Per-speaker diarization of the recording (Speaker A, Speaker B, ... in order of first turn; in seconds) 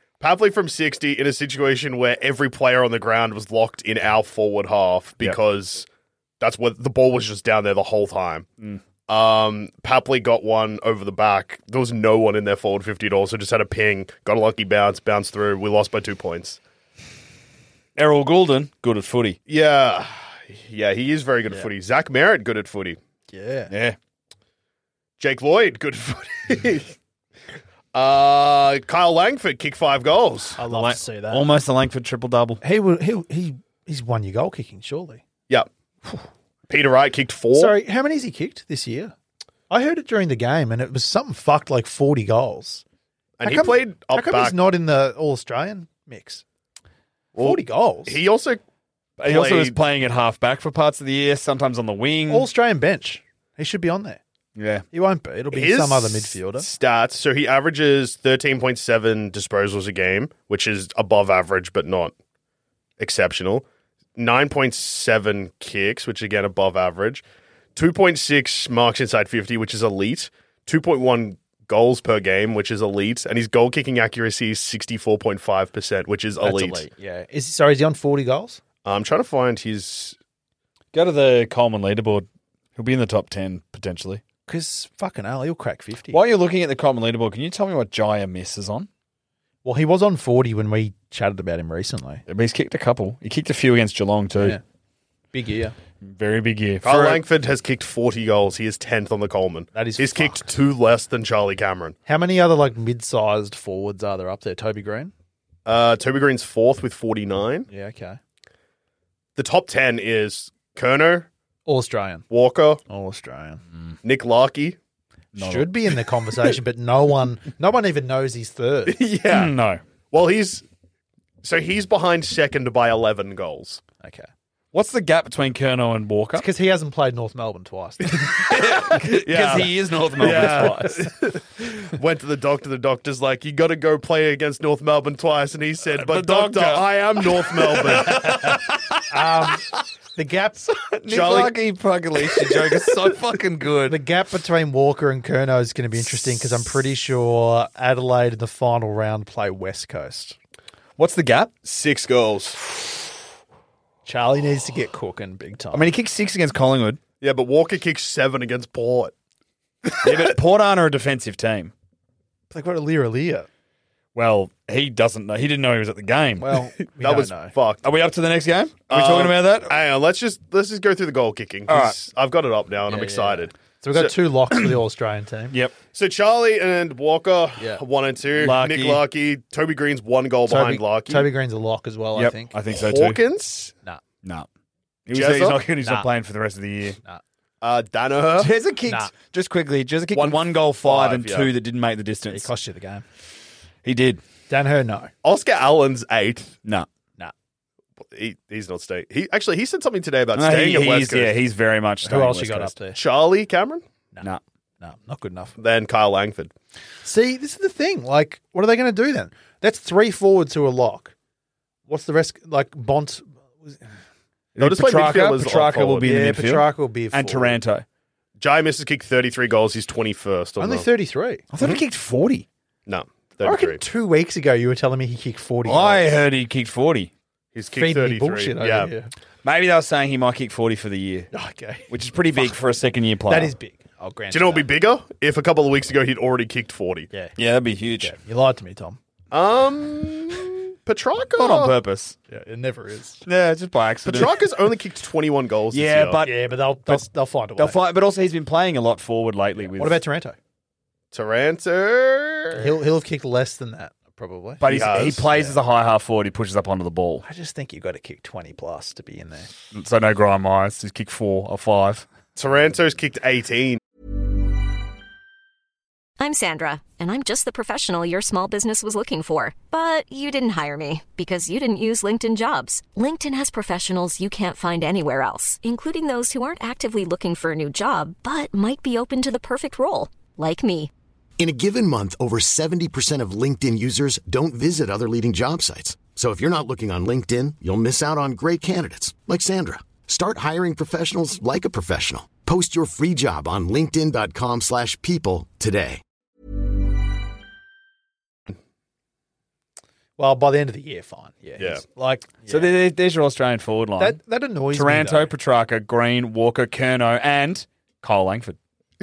Speaker A: 0.2-5.9, 6.4-8.5, 9.1-16.6, 19.5-23.0, 25.2-26.9, 27.9-30.6, 36.7-37.7, 43.4-44.6, 47.3-48.6, 49.2-49.8, 55.5-62.1, 63.0-63.6, 64.2-67.2, 67.7-76.8, 78.8-80.2, 96.8-102.0, 105.7-107.7, 109.3-111.3, 112.3-112.8, 114.0-114.8, 118.9-119.5, 120.1-120.6, 121.4-123.8, 128.9-138.7, 141.1-141.5, 151.6-152.6, 157.2-159.1, 166.9-167.8, 168.9-174.1, 175.9-181.3, 182.7-183.7, 185.1-185.6, 187.6-188.5, 190.1-191.5, 195.2-196.5, 198.1-201.3, 202.9-203.8, 205.6-206.5, 214.6-216.1, 218.4-220.9, 222.9-223.8, 227.5-228.9, 234.3-237.1, 239.3-241.7, 244.0-246.2, 251.1-252.8, 254.7-255.3, 262.4-263.8
Speaker B: 17.9-19.4, 23.7-23.9, 30.7-32.6, 49.2-52.5, 54.5-54.8, 80.9-84.2, 86.1-88.9, 92.3-94.6, 96.0-97.2, 115.3-115.7, 119.3-119.8, 124.7-126.5, 128.1-130.9, 135.9-139.6, 140.7-144.0, 151.0-151.5, 155.7-157.0, 160.0-161.7, 164.1-166.6, 167.8-169.7, 171.7-172.0, 178.3-179.0, 182.1-183.2, 185.1-187.0, 188.4-192.5, 193.8-194.2, 200.3-202.7, 214.5-217.8, 221.5-222.4, 225.7-227.1, 229.4-231.3, 231.9-233.5, 237.3-238.1, 241.4-242.2, 243.2-244.4, 245.7-247.0, 247.6-250.0, 254.6-257.2, 259.7-262.0, 302.5-304.2, 304.7-308.6
Speaker C: 23.3-23.7, 30.6-31.4, 32.6-35.2, 37.5-39.1, 39.7-42.8, 43.4-46.4, 47.4-48.2, 52.3-54.2, 54.9-56.7, 76.4-78.6, 84.5-86.2, 89.6-92.2, 95.3-95.7, 99.7-100.5, 102.0-105.1, 107.7-108.2, 111.7-112.2, 112.9-113.6, 115.3-119.0, 124.0-124.3, 126.3-128.4, 130.2-131.1, 139.1-139.6, 140.2-140.7, 143.9-150.3, 154.1-155.9, 162.5-163.5, 166.4-167.5, 172.9-175.5, 180.5-182.5, 185.8-186.1, 188.9-189.1, 192.3-193.0, 194.5-195.1, 202.0-203.0, 204.1-205.5, 207.0-211.1, 211.9-213.8, 216.0-217.6, 220.6-221.5, 223.4-226.2, 227.7-229.1, 231.3-232.6, 233.3-234.7, 238.0-239.0, 242.3-243.2, 246.2-247.8, 249.7-250.4, 252.5-255.5, 257.2-259.5, 300.2-302.7, 304.0-305.3
Speaker D: 266.2-280.9
Speaker E: 281.4-296.0